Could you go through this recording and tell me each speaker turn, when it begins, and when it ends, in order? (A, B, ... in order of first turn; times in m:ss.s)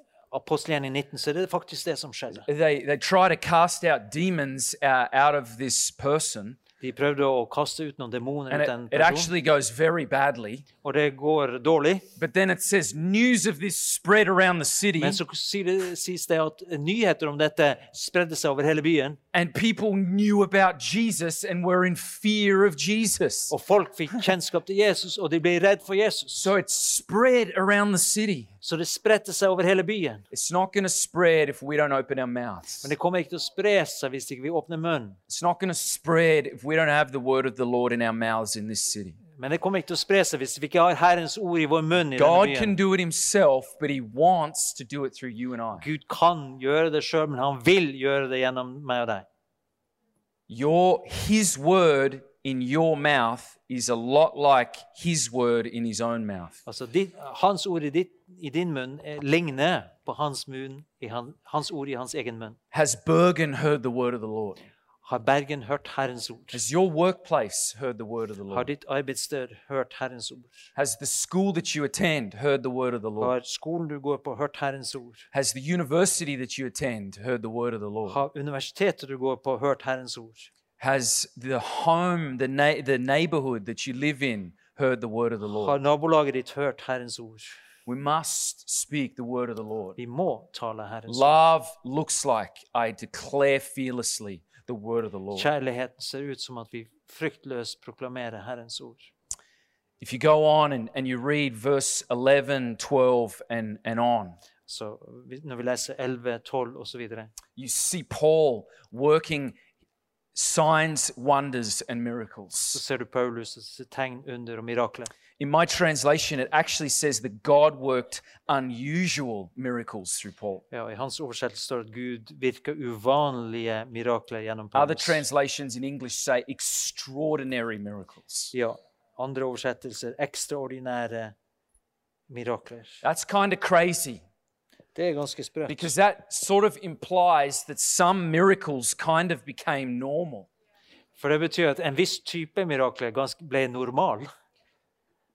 0:00.3-0:02.5 A
0:02.5-0:06.6 B
0:06.8-0:09.3 A
0:08.5-0:10.6 B
0:10.8-0:12.1 A
0:12.2-0:15.2 B
0:15.0-0:19.2 A
0:19.3-0:23.5 B
0:23.5-0:26.5 A
0:26.4-0:28.5 B
0:28.6-0:30.2 A
0:30.3-0:32.9 B
0:32.8-0:35.2 A
0:35.3-0:39.2 B
0:39.3-0:42.8 A
0:42.1-0:45.8 B
0:45.8-0:49.2 A
0:50.5-0:56.6 B
0:56.6-1:02.6 A
1:02.7-1:04.6 B
1:05.0-1:06.6 A
1:06.5-1:08.7 B
1:08.5-1:10.7 A
1:10.8-1:13.3 B
1:13.2-1:15.3 A
1:15.3-1:18.2 B
1:18.1-1:20.5 A
1:20.8-1:25.8 B
1:25.5-1:27.6 A
1:27.8-1:30.0 B
1:30.0-1:31.4 A
1:31.1-1:35.5 B
1:35.3-1:39.1 A
1:40.0-1:44.4 B
1:44.7-1:47.3 A
1:47.6-1:49.6 B
1:50.3-1:52.8 B
1:52.7-1:55.1 A
1:55.4-2:00.6 B
2:00.7-2:05.2 A
2:04.7-2:08.5 B
2:08.5-2:11.3 A
2:12.3-2:13.0 A
2:13.0-2:14.2 B
2:14.9-2:15.9 A
2:15.7-2:20.5 B
2:21.2-2:24.3 A